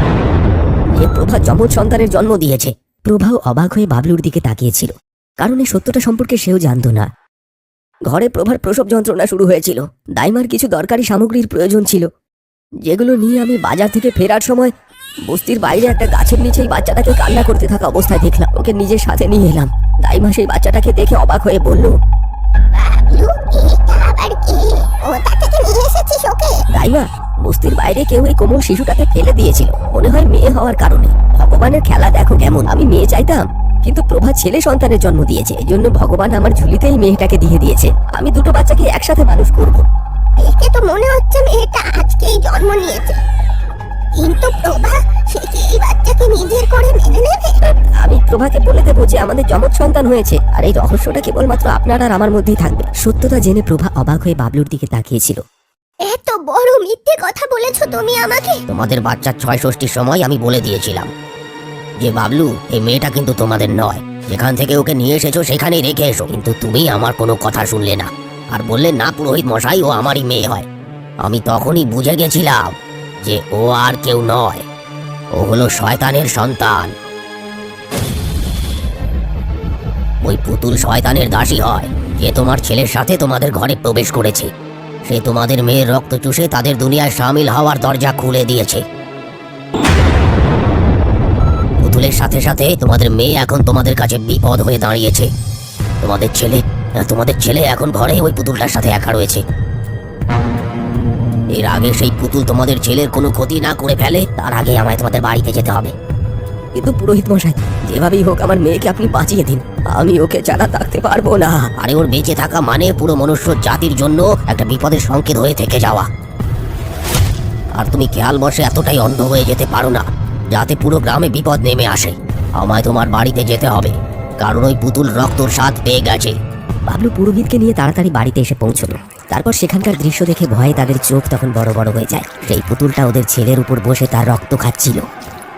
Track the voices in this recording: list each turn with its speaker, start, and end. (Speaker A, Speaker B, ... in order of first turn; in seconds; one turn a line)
Speaker A: 0.9-7.1
Speaker A: 8.1-12.1
Speaker A: 12.8-14.7
Speaker A: 15.3-21.9
Speaker B: 22.8-26.6
Speaker A: 26.7-39.9
Speaker B: 40.4-43.2
Speaker B: 44.2-47.6
Speaker A: 48.0-55.4
Speaker B: 56.1-58.6
Speaker C: 58.7-61.1
Speaker C: 62.0-70.7
Speaker C: 71.2-74.7
Speaker C: 75.4-76.9
Speaker C: 80.2-84.5
Speaker C: 85.0-88.8
Speaker C: 91.8-95.3
Speaker C: 96.0-99.4
Speaker C: 101.5-106.0
Speaker A: 106.8-111.7
Speaker C: 111.8-116.1
Speaker C: 117.8-126.3
Speaker A: 126.9-135.1